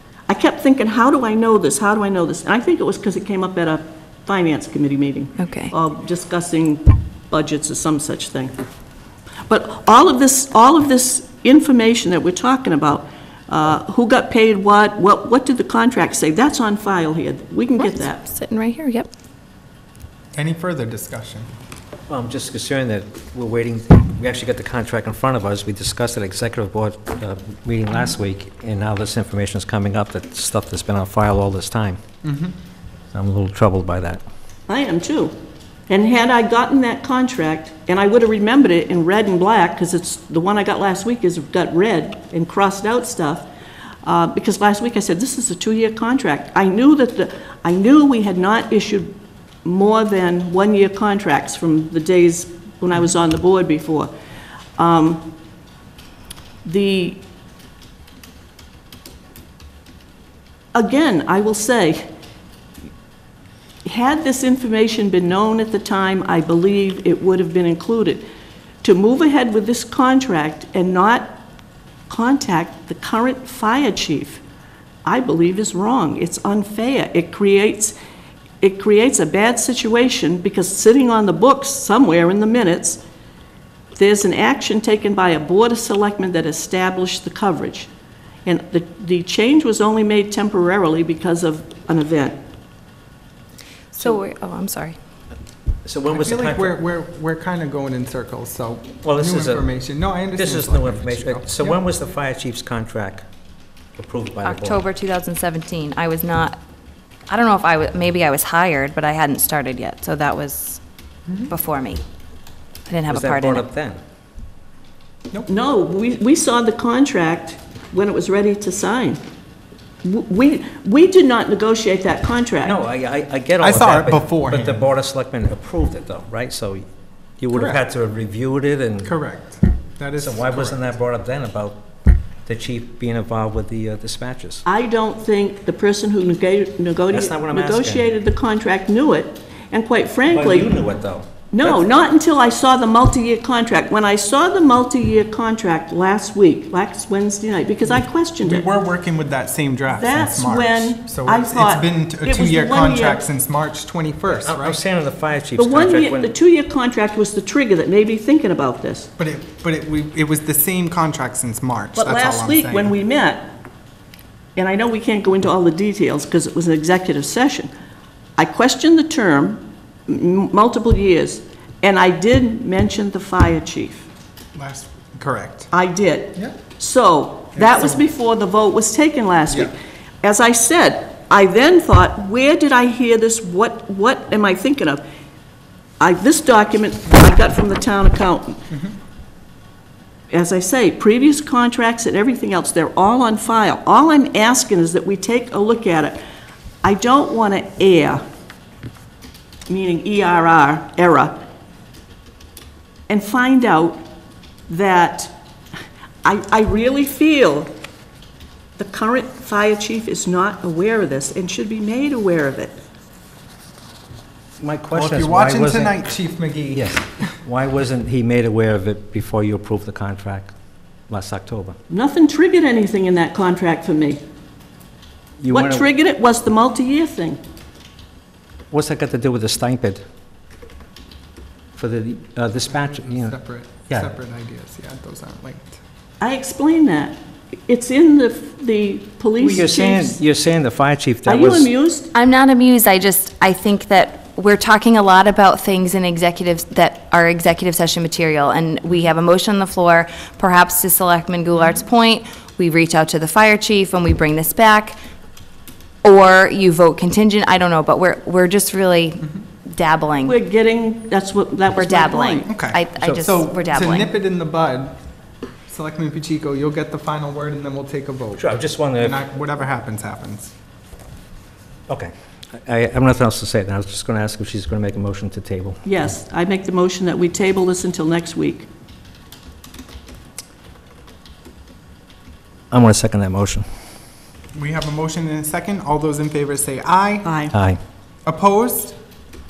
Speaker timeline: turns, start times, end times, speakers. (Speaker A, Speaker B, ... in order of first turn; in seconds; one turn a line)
Speaker A: 0.3-8.5
Speaker B: 5.4-5.7
Speaker A: 9.5-18.2
Speaker B: 17.8-19.1
Speaker C: 20.3-21.5
Speaker D: 22.1-32.0
Speaker C: 32.2-32.5
Speaker D: 33.1-34.2
Speaker A: 34.7-35.3
Speaker A: 35.9-43.5
Speaker A: 44.0-54.1
Speaker A: 54.8-55.3
Speaker A: 56.6-57.2
Speaker A: 60.7-62.1
Speaker A: 63.8-68.2
Speaker A: 68.8-71.4
Speaker A: 72.1-74.4
Speaker A: 75.0-78.0
Speaker A: 78.6-83.0
Speaker A: 84.0-87.9
Speaker A: 88.4-92.4
Speaker B: 93.9-95.0
Speaker D: 95.8-96.8
Speaker C: 96.1-101.8
Speaker D: 99.0-99.6
Speaker D: 100.3-103.2
Speaker D: 104.0-104.8
Speaker B: 104.4-106.6
Speaker B: 107.3-110.8
Speaker C: 111.3-111.5
Speaker B: 111.5-112.0
Speaker B: 112.9-113.6
Speaker D: 113.1-114.0
Speaker A: 115.5-119.2
Speaker A: 120.0-122.8
Speaker D: 122.6-126.8
Speaker C: 123.6-124.8
Speaker D: 127.4-129.1
Speaker C: 127.5-127.8
Speaker C: 129.0-130.9
Speaker D: 130.2-131.8
Speaker D: 132.4-134.6
Speaker A: 134.6-140.7
Speaker D: 137.1-138.1
Speaker D: 140.3-141.9
Speaker A: 141.5-148.7
Speaker C: 148.4-154.8
Speaker A: 149.9-153.2
Speaker D: 154.3-156.3
Speaker A: 155.6-159.1
Speaker C: 159.2-162.9
Speaker A: 161.9-163.5
Speaker A: 164.6-167.7
Speaker A: 168.4-174.1
Speaker C: 174.5-175.7
Speaker A: 175.7-185.0
Speaker C: 177.5-178.0
Speaker A: 186.0-188.7
Speaker C: 188.7-188.9
Speaker A: 190.3-196.2
Speaker A: 196.8-198.2
Speaker A: 199.7-201.4
Speaker A: 203.1-204.0
Speaker A: 204.7-205.3
Speaker A: 206.2-207.7
Speaker A: 208.8-212.8
Speaker D: 214.6-216.1
Speaker C: 214.9-217.0
Speaker D: 216.7-220.5
Speaker D: 221.1-221.8
Speaker A: 221.9-224.2
Speaker D: 225.4-225.9
Speaker A: 225.5-227.4
Speaker D: 228.7-230.0
Speaker D: 231.7-233.3
Speaker C: 232.7-235.8
Speaker A: 236.2-240.2
Speaker D: 239.4-241.7
Speaker A: 241.2-242.1
Speaker B: 242.1-255.0
Speaker B: 256.0-260.4
Speaker A: 260.2-262.5
Speaker B: 261.7-264.1
Speaker C: 262.5-264.9
Speaker C: 265.7-270.5
Speaker D: 268.4-269.2
Speaker D: 271.9-275.8
Speaker A: 275.8-278.7
Speaker D: 282.7-283.6
Speaker C: 284.5-287.3
Speaker A: 287.2-287.5
Speaker D: 287.5-287.8
Speaker C: 288.2-288.9